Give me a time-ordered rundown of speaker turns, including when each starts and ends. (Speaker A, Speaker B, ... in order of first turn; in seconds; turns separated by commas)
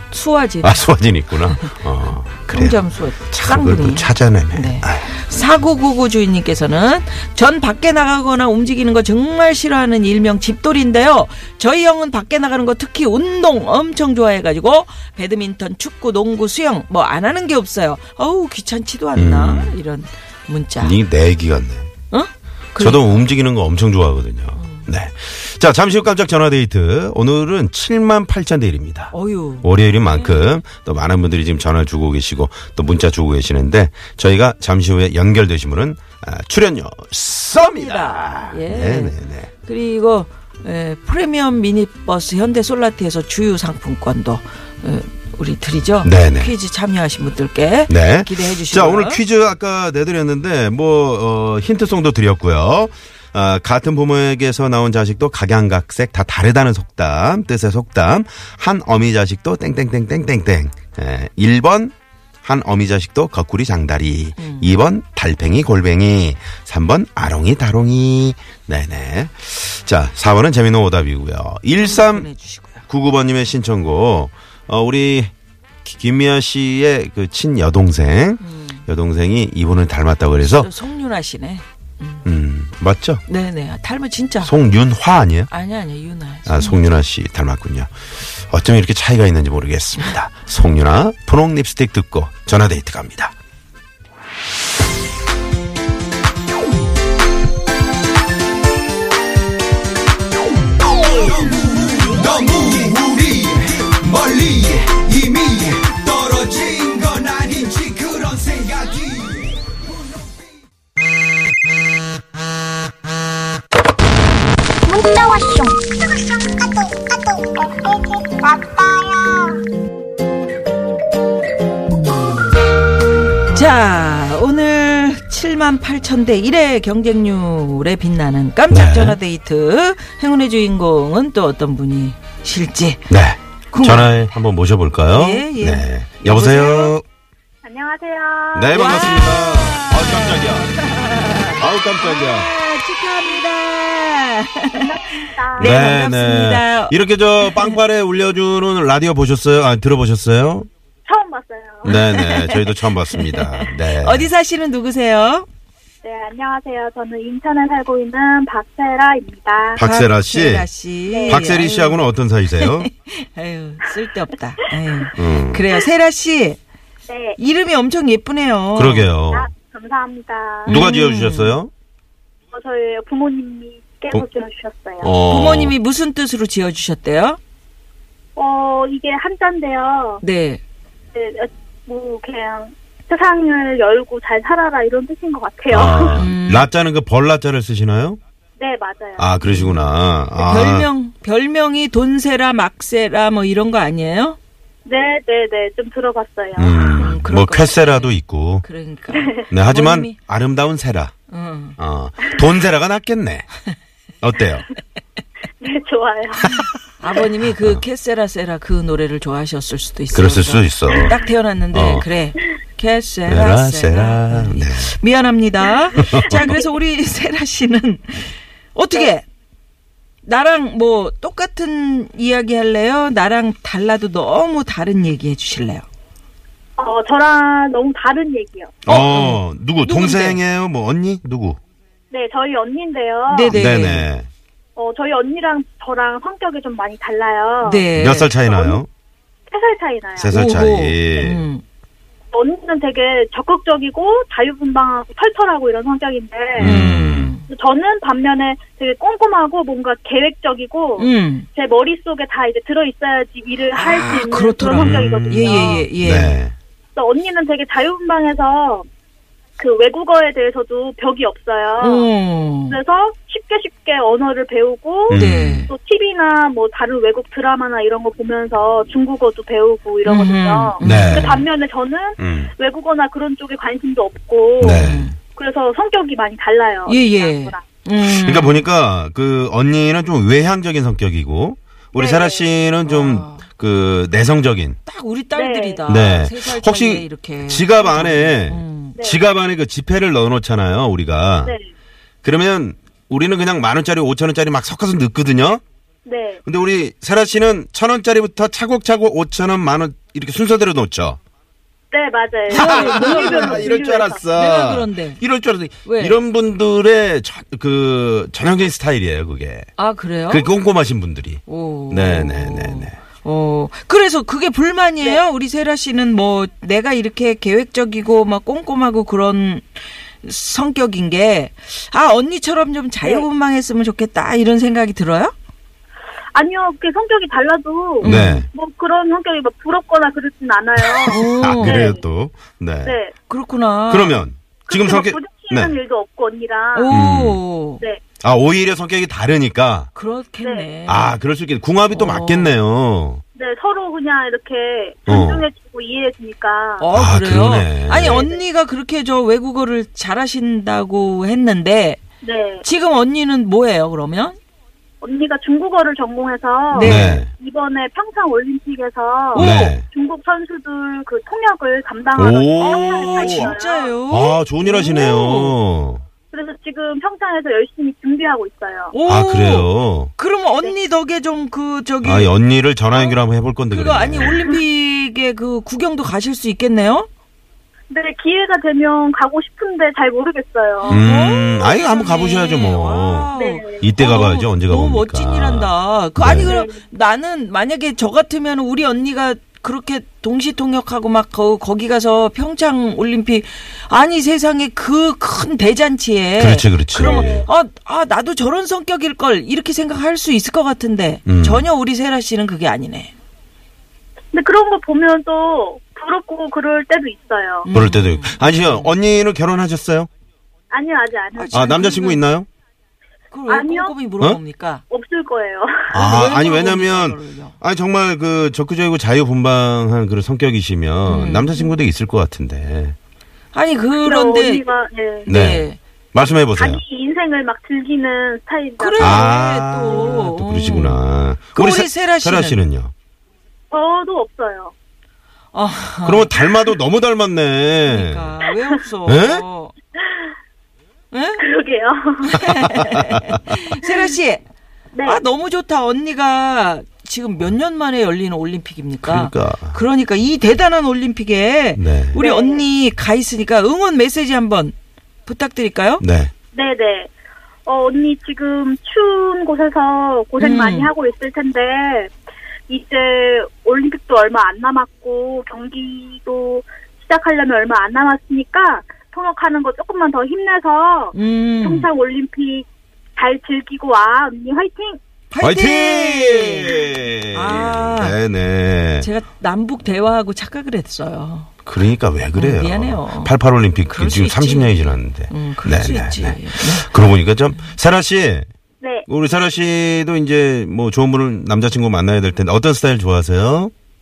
Speaker A: 0.1-1.8, Speaker B: 0.6-5.1, Speaker A: 2.3-20.9, Speaker B: 19.1-19.8, Speaker B: 20.8-21.9, Speaker A: 22.1-23.2, Speaker B: 22.8-39.5, Speaker A: 24.5-24.9, Speaker A: 29.1-30.5, Speaker A: 37.5-49.2, Speaker B: 46.0-46.5, Speaker B: 47.9-61.9, Speaker B: 62.4-72.3, Speaker A: 64.4-64.7, Speaker A: 71.8-72.8, Speaker B: 72.9-75.3, Speaker B: 75.8-80.7, Speaker A: 78.4-78.8, Speaker A: 80.4-82.3, Speaker B: 82.2-83.2, Speaker A: 83.3-84.5, Speaker B: 84.4-85.5, Speaker A: 85.5-86.8, Speaker B: 86.5-87.9, Speaker B: 88.5-93.3, Speaker C: 102.4-103.6, Speaker C: 104.2-109.1, Speaker D: 114.8-119.6, Speaker A: 123.5-133.1, Speaker B: 128.7-129.2, Speaker B: 133.1-137.0, Speaker A: 133.7-134.2, Speaker A: 135.1-136.9, Speaker E: 137.6-139.2, Speaker B: 138.5-140.9, Speaker A: 138.7-147.8, Speaker B: 141.4-142.5, Speaker E: 144.7-145.8, Speaker B: 145.6-150.7, Speaker E: 151.1-151.9, Speaker B: 151.8-154.3, Speaker A: 151.8-155.5, Speaker E: 156.0-159.8, Speaker B: 159.8-160.7, Speaker A: 159.8-166.6, Speaker E: 161.1-161.5, Speaker B: 161.3-162.9, Speaker B: 165.2-165.7, Speaker E: 167.1-167.4, Speaker A: 167.4-169.1, Speaker B: 168.7-169.5, Speaker E: 169.3-170.8, Speaker A: 170.7-171.6, Speaker B: 170.7-171.7, Speaker E: 172.5-175.1, Speaker B: 175.0-175.8, Speaker A: 175.2-177.4, Speaker E: 178.3-180.2, Speaker A: 180.2-180.6, Speaker E: 181.1-186.2, Speaker B: 185.7-188.2, Speaker A: 186.1-186.7, Speaker E: 188.6-189.3, Speaker B: 189.2-190.9, Speaker A: 189.4-189.8, Speaker A: 190.3-194.4, Speaker E: 194.8-197.1, Speaker B: 196.6-198.6, Speaker A: 196.9-200.2, Speaker B: 199.5-201.1, Speaker A: 201.3-201.8, Speaker B: 201.8-203.5, Speaker B: 204.2-204.7, Speaker E: 205.6-206.6, Speaker B: 206.4-206.7, Speaker A: 207.0-219.2, Speaker B: 207.4-207.8, Speaker B: 210.1-211.2, Speaker B: 211.7-212.1, Speaker B: 213.3-214.9, Speaker B: 215.9-216.6, Speaker E: 216.0-216.6, Speaker A: 220.2-225.8, Speaker E: 226.8-228.9, Speaker B: 228.8-231.6, Speaker A: 228.9-230.4, Speaker E: 232.1-233.6, Speaker A: 233.3-234.1, Speaker B: 233.5-234.3, Speaker E: 234.8-237.9, Speaker A: 237.6-238.3, Speaker B: 237.9-238.9, Speaker E: 238.4-238.8, Speaker E: 239.5-240.4, Speaker B: 240.2-241.5, Speaker A: 240.3-241.6, Speaker E: 242.3-246.8, Speaker B: 246.6-247.3, Speaker A: 246.6-247.4, Speaker E: 247.5-255.9, Speaker A: 251.0-251.5, Speaker A: 253.7-256.4, Speaker B: 254.7-256.5, Speaker E: 256.9-258.9, Speaker E: 259.6-262.1, Speaker A: 261.8-262.8, Speaker E: 262.7-277.6, Speaker B: 265.1-265.7, Speaker A: 265.1-265.7, Speaker A: 270.0-271.4, Speaker B: 270.8-271.4, Speaker B: 272.2-272.5, Speaker B: 274.6-275.1, Speaker A: 274.7-275.1, Speaker A: 276.9-278.7, Speaker B: 278.0-284.8, Speaker E: 281.9-282.5, Speaker A: 282.8-283.4, Speaker A: 284.9-289.0, Speaker E: 285.3-285.9, Speaker B: 285.9-291.5, Speaker B: 292.2-295.6, Speaker E: 296.1-296.4, Speaker B: 296.4-301.2, Speaker E: 301.9-304.2, Speaker A: 302.5-303.7, Speaker B: 302.5-309.7, Speaker A: 304.3-305.2, Speaker A: 305.8-306.2, Speaker A: 309.8-310.5, Speaker B: 310.3-312.9, Speaker A: 311.4-325.3, Speaker E: 326.3-332.0, Speaker A: 328.0-328.4, Speaker B: 328.0-328.5, Speaker B: 330.8-333.0, Speaker A: 331.1-331.9, Speaker E: 332.8-333.1, Speaker A: 333.3-334.2, Speaker B: 333.9-335.8, Speaker E: 334.6-336.9, Speaker A: 336.7-337.8, Speaker B: 336.9-337.4, Speaker B: 338.2-339.9, Speaker A: 339.9-341.2, Speaker E: 340.4-340.7, Speaker B: 340.9-343.2, Speaker A: 341.9-342.6, Speaker E: 343.4-346.9, Speaker B: 345.1-345.4, Speaker A: 346.8-352.0, Speaker B: 346.9-348.3, Speaker E: 347.9-348.4, Speaker E: 352.2-352.6, Speaker A: 352.6-354.4, Speaker E: 355.0-363.9, Speaker A: 356.7-357.2, Speaker B: 356.8-357.3, Speaker A: 359.3-359.8, Speaker B: 359.3-359.9, Speaker B: 362.1-363.5, Speaker A: 362.6-365.6, Speaker B: 364.1-366.0, Speaker E: 366.3-368.9, Speaker A: 368.9-372.3, Speaker B: 369.1-370.1, Speaker B: 372.0-374.5, Speaker A: 372.9-373.2, Speaker A: 373.7-377.1, Speaker E: 377.9-381.0, Speaker A: 380.8-403.1, Speaker B: 380.9-386.6, Speaker E: 383.3-383.9, Speaker E: 386.4-386.8, Speaker B: 396.4-397.5, Speaker E: 397.0-397.5, Speaker B: 401.2-401.7, Speaker E: 404.3-407.7, Speaker A: 407.6-408.9, Speaker B: 407.7-410.1, Speaker E: 410.7-411.9, Speaker A: 411.3-412.2, Speaker B: 411.5-412.5, Speaker A: 413.3-414.8, Speaker E: 413.5-413.9, Speaker E: 414.9-415.9, Speaker B: 415.9-422.9, Speaker A: 415.9-417.6, Speaker A: 421.0-421.7, Speaker A: 423.5-424.6, Speaker E: 424.0-425.3, Speaker A: 425.2-425.8, Speaker B: 425.3-426.8, Speaker E: 426.5-429.3, Speaker A: 428.8-431.0, Speaker B: 429.0-432.9, Speaker A: 431.5-432.6, Speaker E: 433.7-434.7, Speaker A: 435.5-436.3, Speaker B: 436.0-438.4, Speaker A: 437.9-439.7, Speaker B: 439.0-439.4, Speaker A: 441.1-441.4, Speaker E: 441.4-442.4, Speaker A: 442.3-444.4, Speaker B: 442.5-442.9, Speaker E: 444.9-445.2, Speaker A: 445.0-454.7, Speaker B: 449.0-449.8, Speaker B: 451.8-452.2, Speaker E: 452.2-452.6, Speaker A: 455.2-456.0, Speaker B: 456.0-456.3, Speaker E: 456.5-457.1, Speaker E: 457.6-462.1, Speaker A: 460.4-460.9, Speaker E: 462.7-475.0, Speaker A: 471.1-471.9, Speaker A: 475.3-478.2, Speaker B: 475.4-479.1, Speaker A: 479.0-481.5, Speaker B: 481.6-488.4, Speaker A: 482.3-486.9, Speaker E: 488.8-489.1, Speaker B: 489.1-493.7